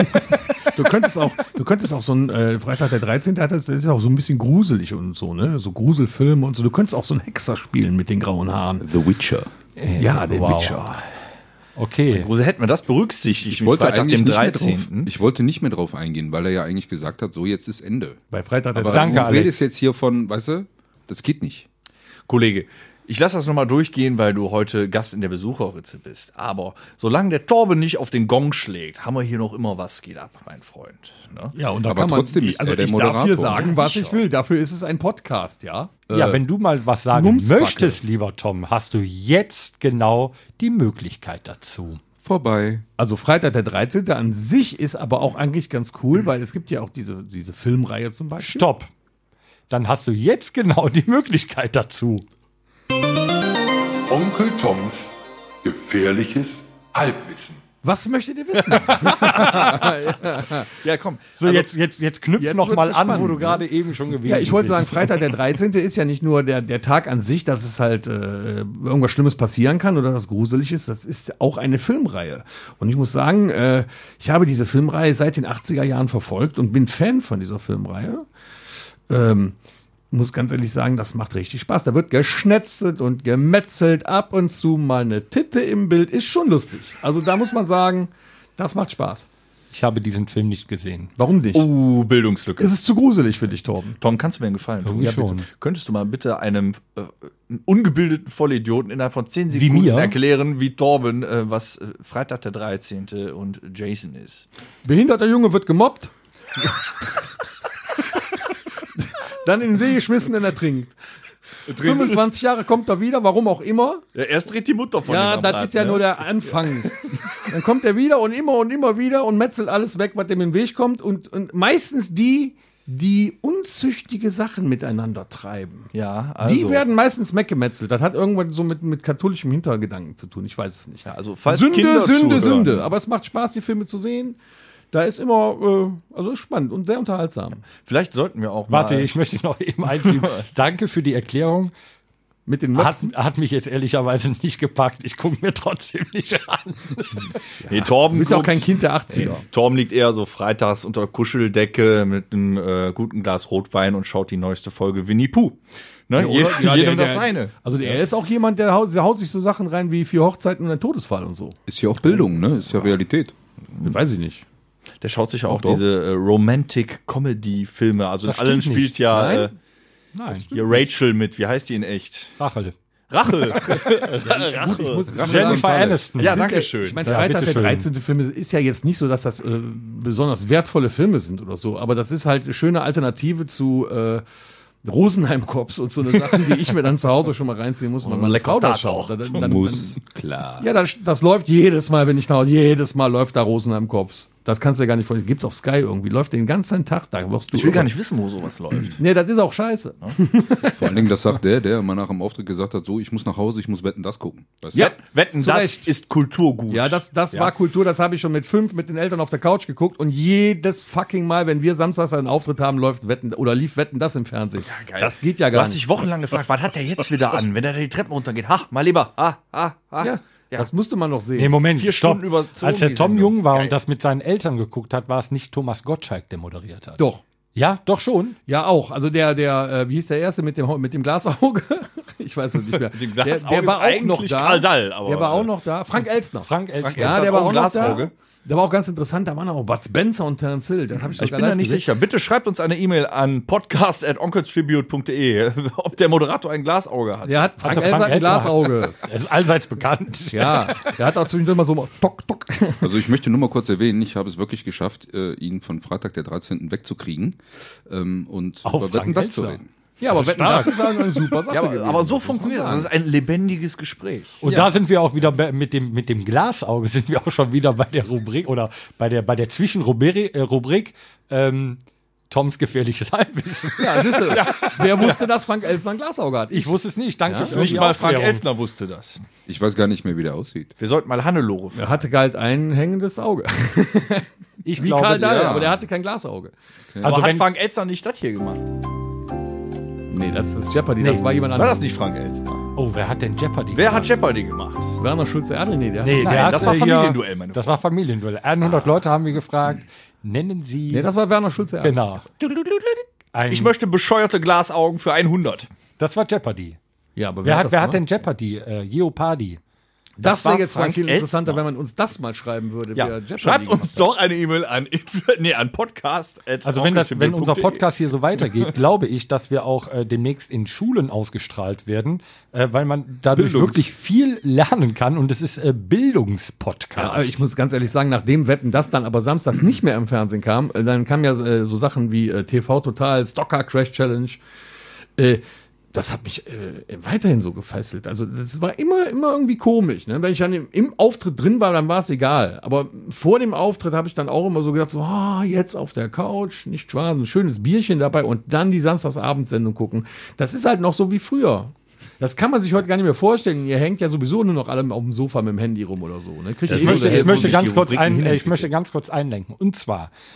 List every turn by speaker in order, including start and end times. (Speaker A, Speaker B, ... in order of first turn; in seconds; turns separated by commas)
Speaker A: 0.7-8.9, Speaker B: 8.8-9.5, Speaker C: 9.8-10.8, Speaker A: 10.0-11.0, Speaker C: 11.8-12.3, Speaker D: 12.1-15.1, Speaker B: 13.5-18.2, Speaker A: 18.3-19.4, Speaker B: 18.7-21.6, Speaker C: 18.9-19.6, Speaker D: 22.3-31.5, Speaker A: 31.5-36.4, Speaker B: 31.8-33.8, Speaker D: 33.5-34.2, Speaker C: 36.1-42.0, Speaker A: 37.1-38.0, Speaker B: 42.2-42.8, Speaker A: 43.0-48.7, Speaker C: 48.4-48.9, Speaker C: 49.7-52.2, Speaker E: 54.1-57.6, Speaker A: 57.8-60.7, Speaker C: 59.0-59.8, Speaker D: 60.7-61.7, Speaker C: 61.4-65.2, Speaker A: 62.4-63.6, Speaker A: 64.2-78.2, Speaker A: 79.1-79.5, Speaker A: 80.1-89.3, Speaker C: 89.7-91.1, Speaker A: 91.2-91.7, Speaker D: 91.5-92.7, Speaker A: 92.6-94.0, Speaker D: 94.0-104.5, Speaker C: 94.8-95.5, Speaker C: 99.5-100.2, Speaker A: 104.8-107.1, Speaker A: 108.9-110.9, Speaker D: 111.7-112.2, Speaker A: 111.7-114.0, Speaker D: 114.1-116.8, Speaker A: 115.0-125.9, Speaker D: 125.9-126.8, Speaker A: 126.4-134.4, Speaker D: 131.0-132.9, Speaker A: 134.9-137.6, Speaker D: 137.8-139.1, Speaker C: 138.7-141.7, Speaker D: 140.0-140.5, Speaker A: 142.4-143.1, Speaker C: 142.8-147.3, Speaker A: 147.6-149.4, Speaker D: 147.7-158.0, Speaker A: 156.1-162.3, Speaker B: 161.7-163.3, Speaker A: 163.8-164.4, Speaker D: 165.0-169.5, Speaker B: 165.5-165.8, Speaker C: 168.2-169.0, Speaker A: 169.1-169.5, Speaker A: 170.1-170.9, Speaker D: 170.5-172.3, Speaker C: 172.4-172.7, Speaker D: 173.1-175.4, Speaker A: 173.8-184.2, Speaker B: 175.1-176.1, Speaker C: 175.2-176.4, Speaker D: 176.2-177.2, Speaker C: 177.0-177.9, Speaker A: 184.8-190.0, Speaker D: 188.0-189.6, Speaker B: 189.4-190.7, Speaker A: 190.6-197.9, Speaker D: 197.5-199.0, Speaker A: 199.0-201.1, Speaker B: 200.7-204.9, Speaker D: 204.7-207.5, Speaker A: 204.7-205.9, Speaker A: 206.7-215.8, Speaker D: 214.6-220.7, Speaker A: 220.0-221.6, Speaker C: 221.3-227.0, Speaker D: 221.7-223.8, Speaker C: 227.5-228.4, Speaker A: 228.5-241.8, Speaker D: 232.7-235.5, Speaker C: 236.4-237.5, Speaker D: 236.8-238.1, Speaker D: 241.2-248.1, Speaker A: 247.2-249.0, Speaker C: 247.6-250.9, Speaker A: 250.3-252.9, Speaker B: 252.8-259.7, Speaker C: 258.6-259.6, Speaker A: 260.0-262.9, Speaker C: 260.1-260.9, Speaker D: 261.5-264.6, Speaker C: 264.4-274.5, Speaker A: 273.8-277.9, Speaker D: 274.3-275.2, Speaker C: 276.5-278.4, Speaker D: 277.4-279.2, Speaker B: 279.5-280.7, Speaker D: 280.8-281.9, Speaker A: 281.7-284.2, Speaker C: 284.6-285.5, Speaker A: 284.8-286.5, Speaker B: 285.0-285.9, Speaker B: 286.9-287.2, Speaker C: 287.0-287.5, Speaker D: 287.0-288.6, Speaker A: 290.1-291.9, Speaker C: 291.0-291.3, Speaker D: 291.5-292.6, Speaker C: 292.8-294.1, Speaker D: 293.7-294.9, Speaker A: 295.0-296.6, Speaker C: 296.0-301.1, Speaker D: 296.2-297.8, Speaker A: 300.9-302.0, Speaker C: 301.8-302.2, Speaker D: 302.4-305.7, Speaker C: 303.3-303.7, Speaker C: 306.0-306.8, Speaker A: 307.1-308.0, Speaker C: 307.4-309.6, Speaker A: 310.2-314.1, Speaker D: 310.2-311.6, Speaker D: 312.9-317.9, Speaker C: 316.6-327.4, Speaker D: 318.4-318.7, Speaker B: 323.3-323.9, Speaker A: 327.0-334.4, Speaker A: 335.2-335.4, Speaker A: 335.9-358.0, Speaker D: 356.6-358.7, Speaker C: 356.7-360.1